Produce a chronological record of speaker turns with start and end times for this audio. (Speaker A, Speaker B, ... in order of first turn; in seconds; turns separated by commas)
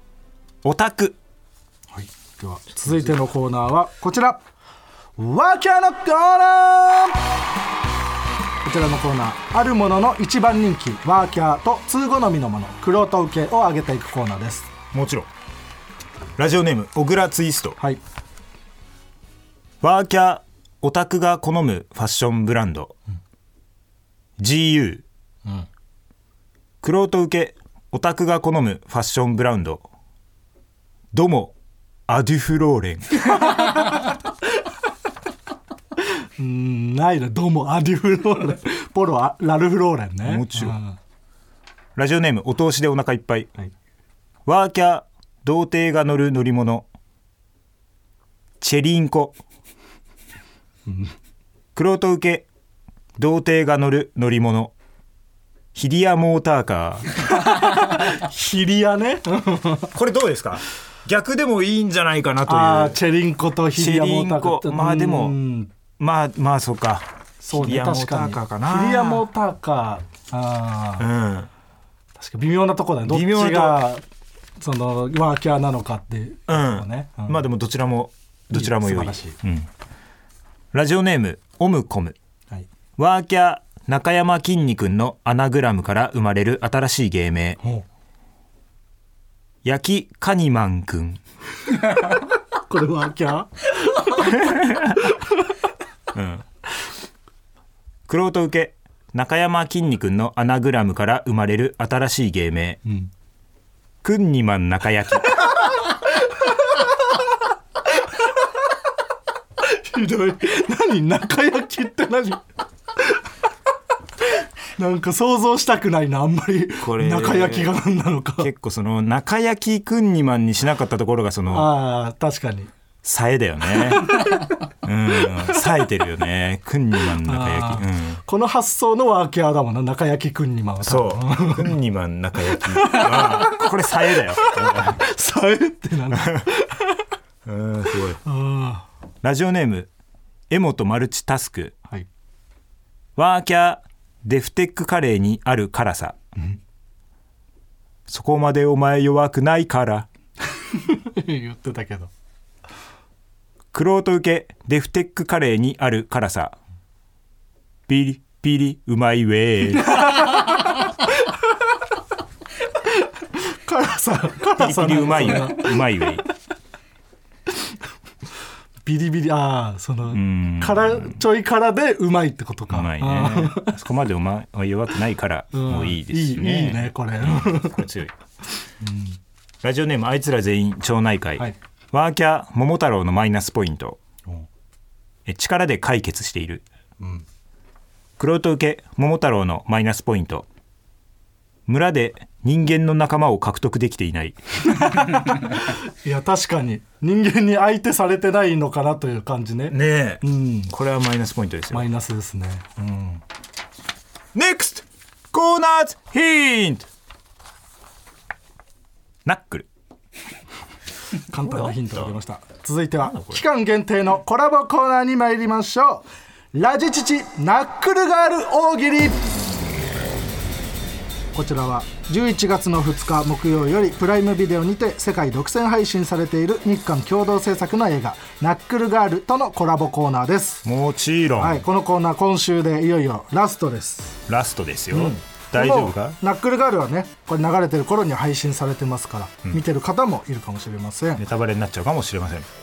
Speaker A: 0.6-1.2, Speaker B: 1.9-4.4, Speaker B: 5.2-7.3, Speaker B: 8.6-14.7, Speaker A: 14.9-15.3, Speaker A: 16.4-17.8, Speaker A: 19.8-22.9, Speaker A: 24.4-25.0, Speaker A: 26.8-29.8, Speaker A: 31.1-31.5, Speaker A: 32.1-33.3, Speaker B: 33.4-34.0, Speaker B: 36.0-41.0, Speaker A: 40.2-40.8, Speaker A: 42.0-43.5, Speaker A: 44.5-46.9, Speaker A: 48.6-49.4, Speaker B: 50.9-51.1, Speaker A: 51.8-52.5, Speaker A: 53.2-54.7, Speaker A: 55.7-57.1, Speaker B: 57.3-59.9, Speaker A: 59.9-63.0, Speaker B: 62.5-65.7, Speaker A: 63.8-65.4, Speaker A: 66.0-69.3, Speaker B: 67.4-71.1, Speaker A: 71.0-71.5, Speaker B: 72.2-74.0, Speaker A: 73.1-73.8, Speaker B: 74.6-77.4, Speaker A: 76.5-79.7, Speaker B: 78.5-79.4, Speaker A: 80.7-82.2, Speaker A: 83.0-87.6, Speaker A: 89.6-91.2, Speaker B: 92.7-95.3, Speaker A: 94.2-95.0, Speaker A: 96.1-96.5, Speaker A: 98.1-102.8, Speaker B: 102.8-103.1, Speaker A: 104.0-105.5, Speaker B: 106.3-106.9, Speaker B: 109.6-112.4, Speaker B: 114.8-118.5, Speaker A: 116.8-117.8, Speaker A: 118.4-121.7, Speaker B: 121.5-122.7, Speaker A: 123.0-124.2, Speaker B: 124.0-124.5, Speaker A: 124.8-128.2, Speaker B: 127.2-131.8, Speaker A: 130.8-135.0, Speaker B: 132.5-133.6, Speaker B: 134.3-137.1, Speaker A: 136.2-136.4, Speaker A: 137.4-138.2, Speaker B: 138.2-138.9, Speaker A: 139.2-139.9, Speaker A: 140.5-141.8, Speaker A: 143.2-146.2, Speaker A: 148.1-150.1, Speaker B: 150.7-152.1, Speaker A: 153.7-156.6, Speaker A: 157.9-160.1, Speaker B: 159.9-161.6, Speaker B: 162.8-166.3, Speaker A: 164.5-166.2, Speaker B: 168.8-173.8, Speaker A: 170.1-171.2, Speaker A: 172.7-178.1, Speaker B: 175.5-177.8, Speaker B: 178.8-179.2, Speaker A: 179.6-184.0, Speaker A: 185.3-186.7, Speaker A: 188.2-190.5, Speaker A: 191.7-194.4, Speaker B: 194.6-200.7, Speaker A: 199.7-201.9, Speaker B: 201.7-202.8, Speaker A: 204.3-206.9, Speaker A: 209.2-209.7, Speaker B: 211.3-219.3, Speaker A: 211.5-212.0, Speaker A: 213.1-213.4, Speaker B: 221.3-230.7, Speaker A: 230.6-231.6, Speaker B: 231.4-234.2, Speaker A: 234.3-236.2, Speaker B: 234.9-241.2, Speaker A: 241.2-242.5